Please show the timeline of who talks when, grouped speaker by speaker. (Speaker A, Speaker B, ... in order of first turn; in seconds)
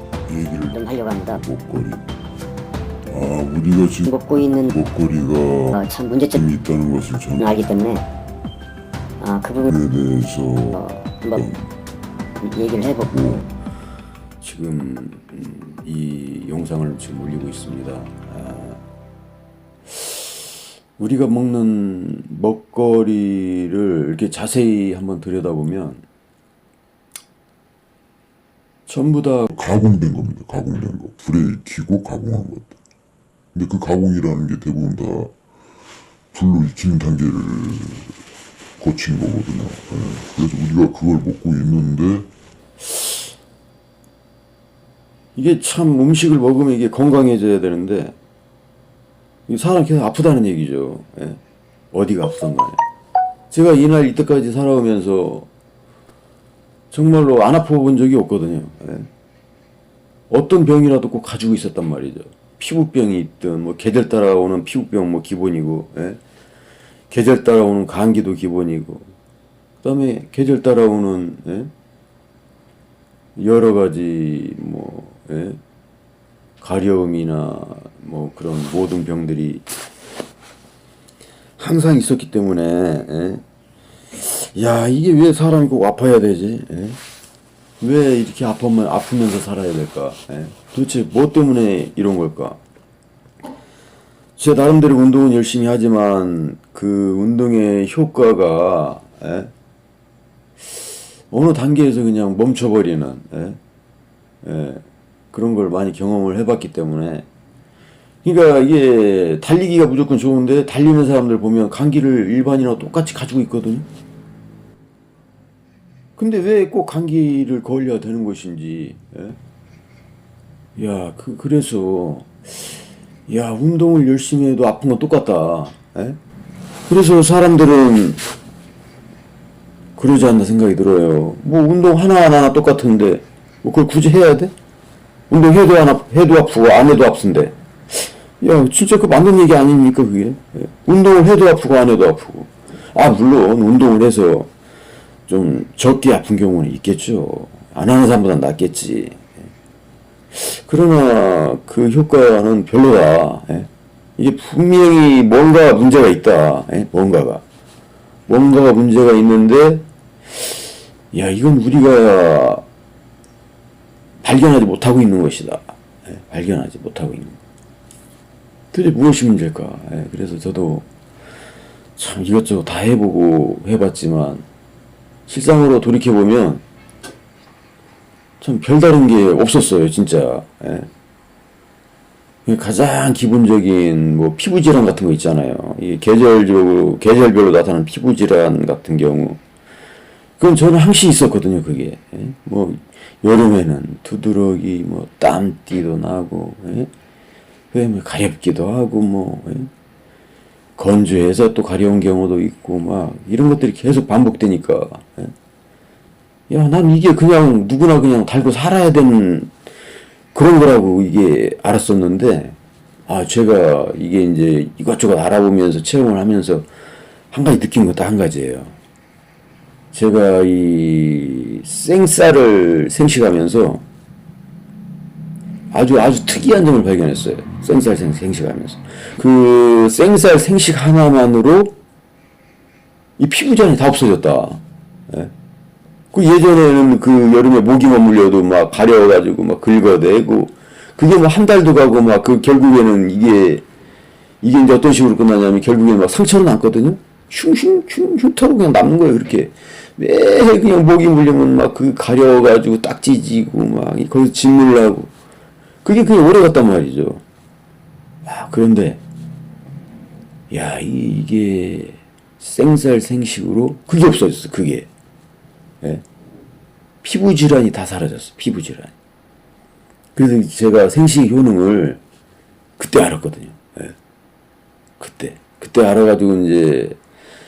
Speaker A: 0.3-2.1, 3.1-4.1, 4.7-5.8, 6.3-7.5, 9.7-11.7, 13.1-13.4, 29.5-32.8, 33.5-35.4, 36.3-38.2, 38.8-42.3
Speaker B: 0.7-1.4, 4.1-4.7, 5.7-6.4, 7.4-8.0, 9.2-9.7, 10.7-11.5, 12.4-13.4
Speaker C: 14.4-18.8, 19.9-26.1, 28.9-29.5, 42.9-43.2, 45.4-48.2, 49.5-51.4, 51.9-52.8, 53.5-55.5, 56.9-59.1, 60.3-66.2, 67.1-69.2, 69.8-71.7, 73.4-75.6, 76.6-79.7, 81.6-83.4, 84.1-87.0, 87.8-92.6, 94.4-99.5, 101.3-103.6, 104.4-107.3, 108.2-113.9, 116.2-119.4, 120.8-126.2, 126.9-128.2, 130.0-134.5, 135.3-144.5, 145.3-149.4, 150.3-157.4, 158.3-160.6, 161.1-162.7, 164.2-167.4, 168.7-170.9, 172.0-174.4, 175.3-176.6, 178.4-180.9, 182.5-189.4, 190.4-196.9, 197.7-199.7, 200.8-205.3, 206.5-209.5, 210.3-216.7, 217.3-218.8, 219.9-223.8, 225.7-231.8, 233.2-235.3, 236.1-243.7, 244.4-255.1, 255.8-257.2, 258.2-259.0, 260.5-264.9, 267.0-268.9, 270.1-272.0, 272.8-274.0, 275.0-277.0